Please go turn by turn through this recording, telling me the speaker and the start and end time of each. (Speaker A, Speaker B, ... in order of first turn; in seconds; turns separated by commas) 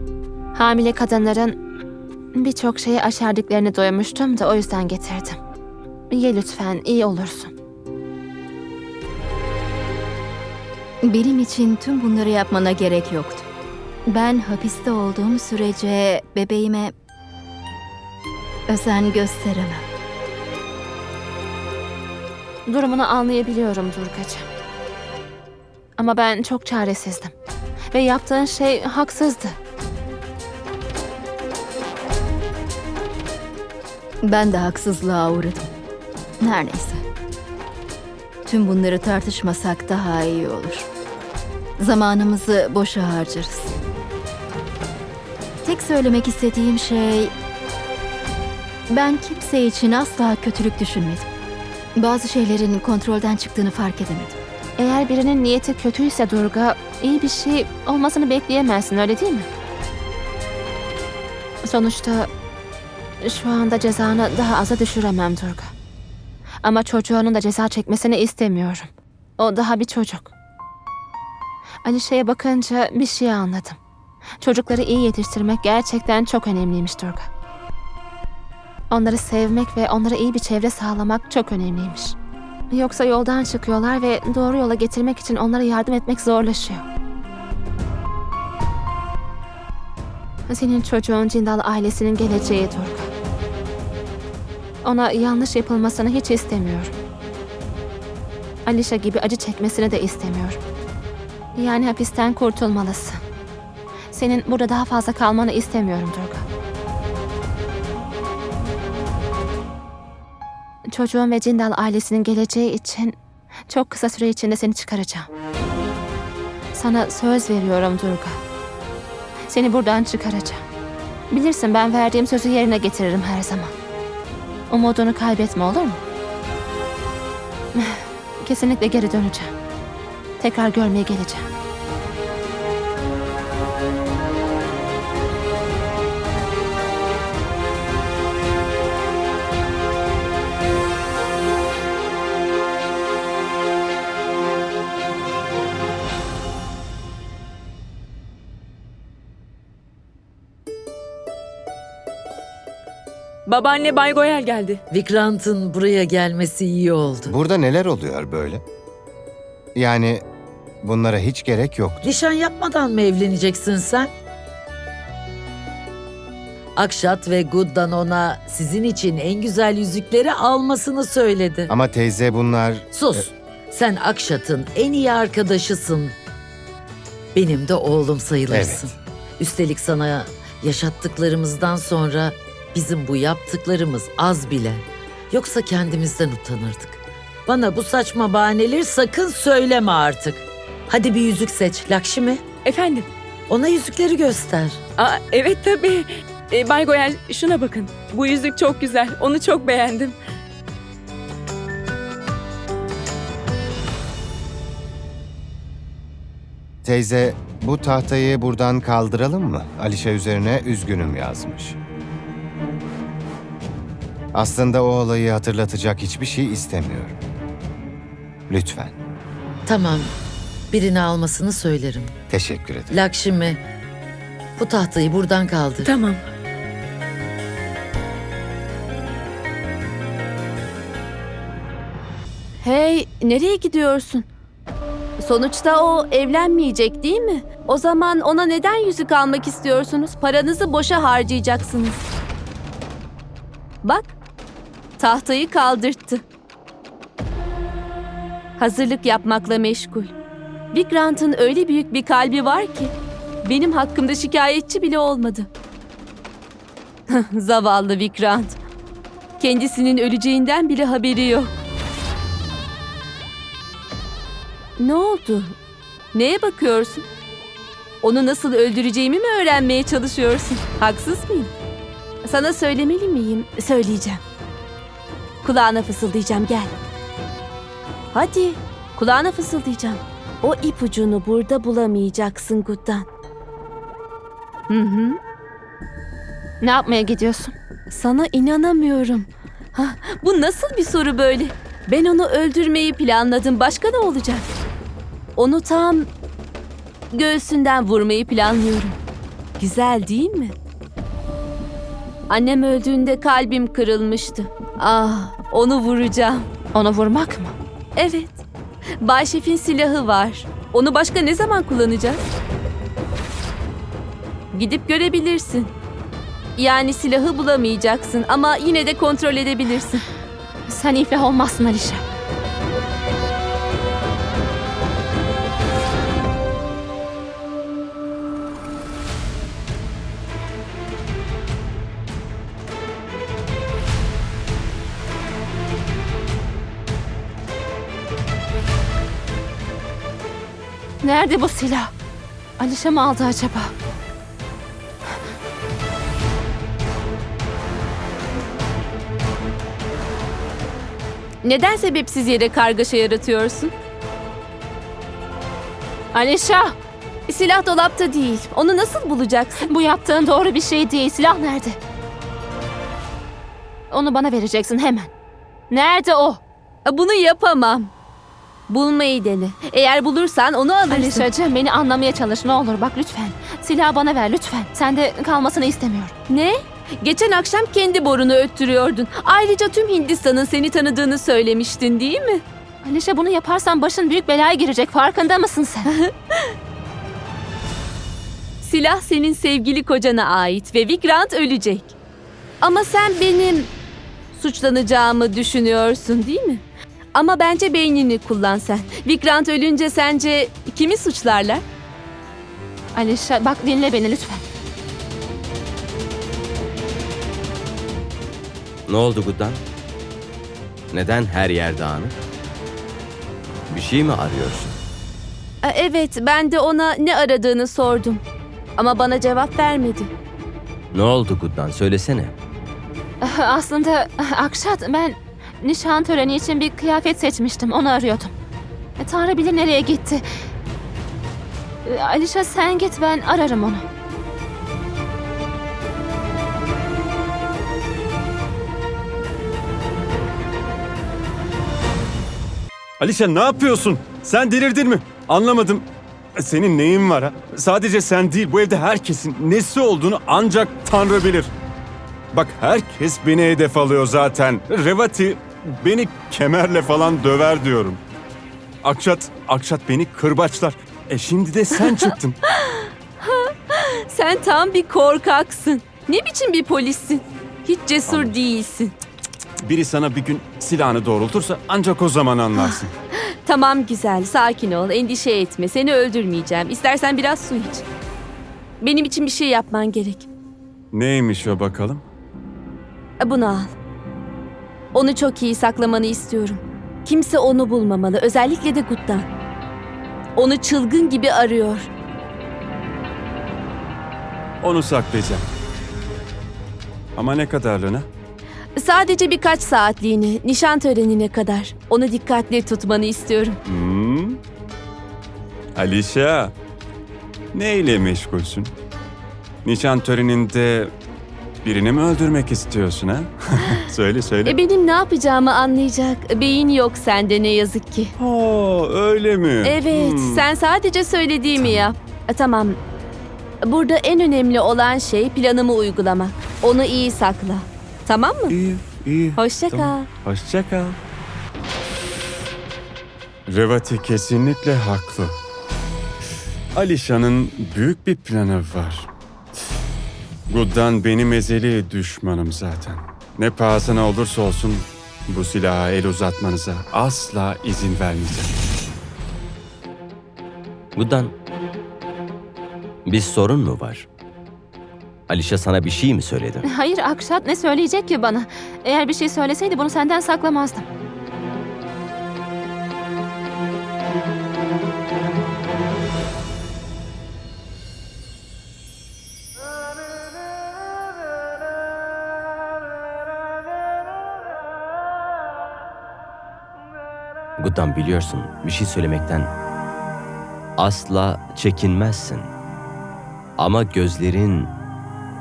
Speaker A: 0.6-1.6, Speaker A: 2.3-5.4, Speaker A: 6.1-7.5, Speaker B: 11.0-13.5, Speaker B: 14.1-16.9, Speaker B: 18.7-19.8, Speaker A: 22.7-24.5, Speaker A: 26.0-27.3, Speaker A: 27.9-29.6, Speaker B: 34.2-35.7, Speaker B: 36.4-37.0, Speaker B: 38.5-40.9, Speaker B: 41.8-43.7, Speaker B: 45.6-47.3, Speaker B: 48.9-51.3, Speaker B: 52.0-54.4, Speaker A: 54.8-59.5, Speaker A: 61.6-62.3, Speaker A: 63.2-65.7, Speaker A: 66.6-70.3, Speaker A: 71.8-73.8, Speaker A: 74.4-77.3, Speaker A: 78.9-82.2, Speaker A: 82.7-86.8, Speaker A: 90.5-93.1, Speaker A: 94.8-96.9, Speaker A: 98.7-100.6, Speaker A: 101.5-103.2, Speaker A: 104.1-106.5, Speaker A: 110.9-113.2, Speaker A: 113.7-115.3, Speaker A: 116.7-118.4, Speaker A: 119.5-120.6, Speaker A: 121.3-123.7, Speaker A: 124.7-126.0, Speaker A: 127.7-129.5, Speaker A: 130.4-131.5, Speaker C: 153.5-154.8, Speaker D: 154.9-157.3, Speaker E: 157.3-158.6, Speaker E: 159.8-160.2, Speaker E: 160.8-162.0, Speaker D: 162.0-164.1, Speaker D: 166.8-171.7, Speaker E: 171.7-173.3, Speaker D: 172.9-176.2, Speaker D: 177.3-192.5, Speaker E: 178.5-178.9, Speaker C: 192.7-193.1, Speaker D: 193.5-194.8, Speaker C: 195.0-200.2, Speaker E: 206.8-211.8, Speaker E: 214.3-217.2, Speaker E: 218.5-218.9, Speaker D: 219.7-220.1, Speaker D: 220.7-222.2, Speaker E: 222.3-222.9, Speaker D: 222.9-223.6, Speaker D: 224.6-225.9, Speaker C: 225.8-226.2, Speaker F: 232.6-234.3, Speaker F: 235.2-242.1, Speaker F: 243.8-244.1, Speaker F: 245.0-246.2, Speaker F: 248.6-250.1, Speaker F: 250.7-255.5, Speaker F: 257.1-258.6, Speaker F: 259.4-261.6, Speaker F: 264.8-265.5, Speaker F: 266.1-267.1, Speaker F: 268.0-271.5, Speaker F: 272.2-274.2, Speaker F: 275.4-276.8, Speaker F: 278.1-283.1, Speaker F: 284.7-285.2, Speaker A: 286.6-287.5, Speaker F: 287.9-294.5, Speaker F: 295.4-296.1, Speaker F: 297.1-299.0, Speaker F: 299.6-300.6, Speaker F: 302.3-306.5, Speaker A: 306.7-307.5, Speaker F: 308.0-308.4, Speaker F: 309.0-312.2, Speaker F: 314.5-315.7, Speaker F: 316.6-320.0, Speaker A: 320.7-322.0, Speaker A: 341.0-341.9, Speaker A: 342.6-343.7, Speaker F: 351.4-353.7, Speaker A: 356.1-356.8, Speaker F: 357.3-359.7, Speaker A: 359.6-361.8, Speaker A: 363.9-365.1, Speaker A: 365.7-366.4, Speaker F: 366.9-367.9, Speaker F: 368.7-371.3, Speaker A: 370.9-376.1, Speaker F: 376.3-382.4, Speaker A: 382.8-385.9, Speaker F: 385.9-386.5, Speaker F: 388.6-391.9, Speaker F: 392.6-393.7, Speaker F: 394.3-396.6, Speaker F: 397.2-401.6, Speaker A: 402.9-404.4, Speaker G: 408.9-409.6, Speaker G: 410.9-412.2, Speaker G: 413.7-414.8, Speaker F: 415.6-418.2, Speaker F: 418.8-420.1, Speaker G: 420.9-422.3, Speaker A: 423.2-428.3, Speaker A: 429.0-430.2, Speaker A: 431.9-433.8, Speaker H: 443.0-445.9, Speaker H: 446.4-451.5, Speaker H: 452.3-458.0, Speaker H: 458.8-462.4, Speaker F: 462.4-468.9, Speaker H: 468.1-468.4, Speaker H: 469.6-472.9, Speaker F: 472.6-472.8, Speaker F: 473.4-477.9, Speaker F: 478.8-480.3, Speaker H: 480.9-482.0, Speaker F: 483.2-483.7, Speaker F: 484.9-489.3, Speaker F: 490.4-491.9, Speaker H: 494.6-495.4, Speaker H: 497.2-498.1, Speaker F: 498.8-503.6, Speaker H: 503.7-504.4, Speaker H: 505.8-506.5, Speaker H: 507.5-508.7, Speaker H: 509.6-510.9, Speaker H: 511.6-514.6, Speaker F: 514.5-518.1, Speaker H: 518.2-520.4, Speaker F: 519.6-522.8, Speaker H: 521.6-521.9, Speaker F: 523.6-528.6, Speaker H: 528.5-531.0, Speaker F: 529.4-530.1, Speaker H: 533.5-535.4, Speaker H: 536.8-539.1, Speaker H: 540.5-548.5, Speaker G: 551.0-551.3, Speaker G: 553.1-554.1, Speaker G: 555.3-556.7, Speaker A: 556.6-560.9, Speaker G: 577.6-579.5, Speaker G: 580.8-582.5, Speaker G: 583.6-584.7